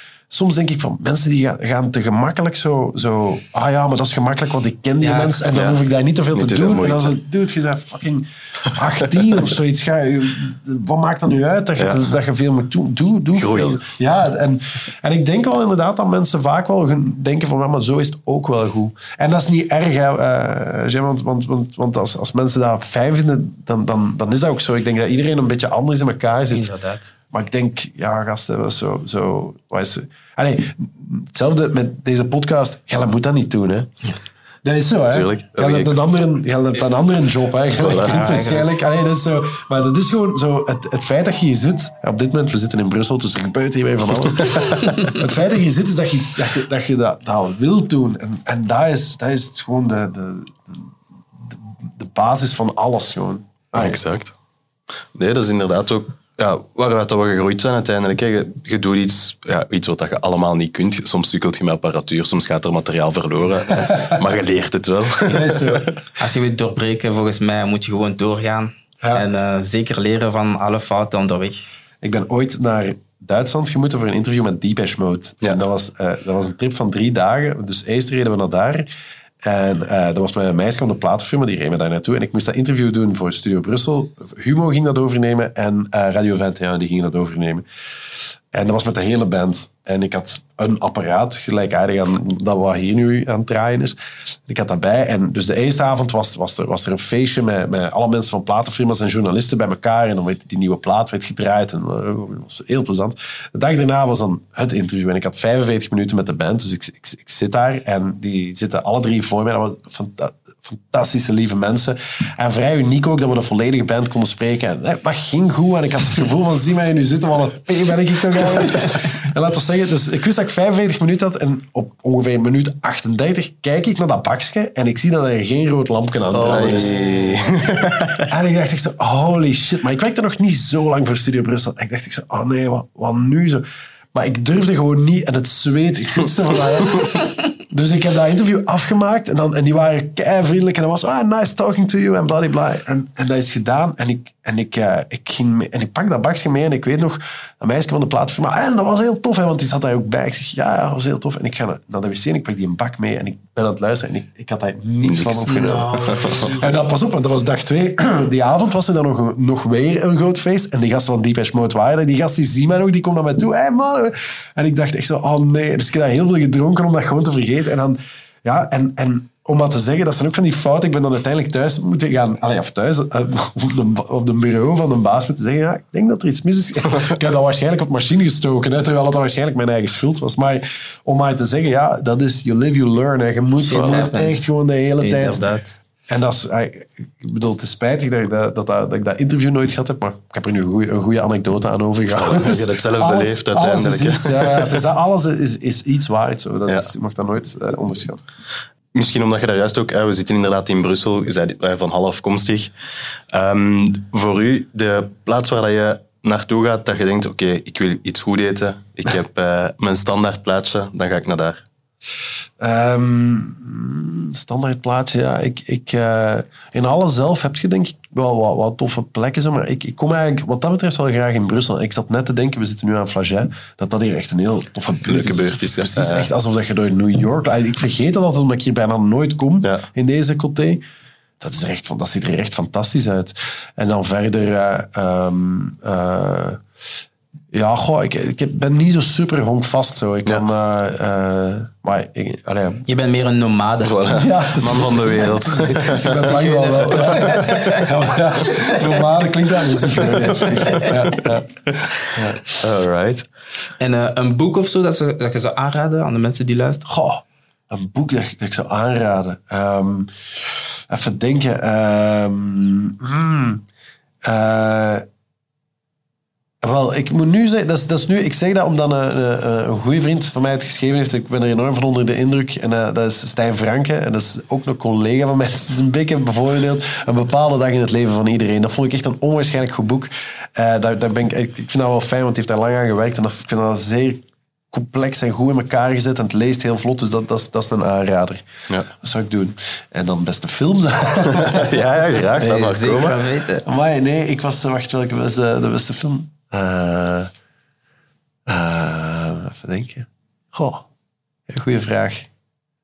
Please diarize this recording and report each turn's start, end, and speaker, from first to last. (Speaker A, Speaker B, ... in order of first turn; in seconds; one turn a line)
Speaker A: 0.3-26.7
Speaker B: 5.0-5.5
Speaker C: 5.5-5.8
Speaker C: 6.3-7.1
Speaker C: 11.8-12.0
Speaker C: 13.3-13.8
Speaker B: 26.5-27.1
Speaker A: 27.3-33.9
Speaker A: 34.6-50.9
Speaker C: 35.1-36.0
Speaker C: 37.8-38.3
Speaker B: 38.0-38.8
Speaker C: 44.2-45.1
Speaker A: 51.4-54.0
Speaker C: 53.7-54.3
Speaker C: 55.1-66.0
Speaker A: 63.8-64.1
Speaker A: 65.2-65.9
Speaker B: 66.2-71.6
Speaker A: 72.0-78.9
Speaker A: 79.4-87.6
Speaker A: 88.2-127.0
Speaker B: 126.3-127.5
Speaker C: 126.5-128.3
Speaker A: 128.2-185.4
Speaker C: 155.0-155.5
Speaker B: 155.4-156.7
Speaker C: 156.1-156.5
Speaker B: 183.6-184.5
Speaker C: 183.7-184.0
Speaker B: 185.0-185.8
Speaker A: 186.1-198.2
Speaker C: 192.2-194.8
Speaker C: 198.9-202.7
Speaker C: 203.3-211.6
Speaker A: 212.6-230.8
Speaker C: 225.1-226.3
Speaker A: 231.4-236.6
Speaker A: 237.5-242.8
Speaker B: 242.8-244.1
Speaker C: 243.8-246.3
Speaker A: 244.1-251.5
Speaker B: 245.8-249.0
Speaker C: 247.1-247.8
Speaker B: 250.0-250.9
Speaker C: 250.8-253.3
Speaker A: 252.1-252.4
Speaker B: 253.8-256.9
Speaker A: 256.9-263.6
Speaker A: 264.2-265.0
Speaker A: 266.6-293.1
Speaker C: 291.3-293.2
Speaker B: 292.4-293.6
Speaker A: 293.6-297.3
Speaker A: 298.4-300.9
Speaker A: 301.5-302.3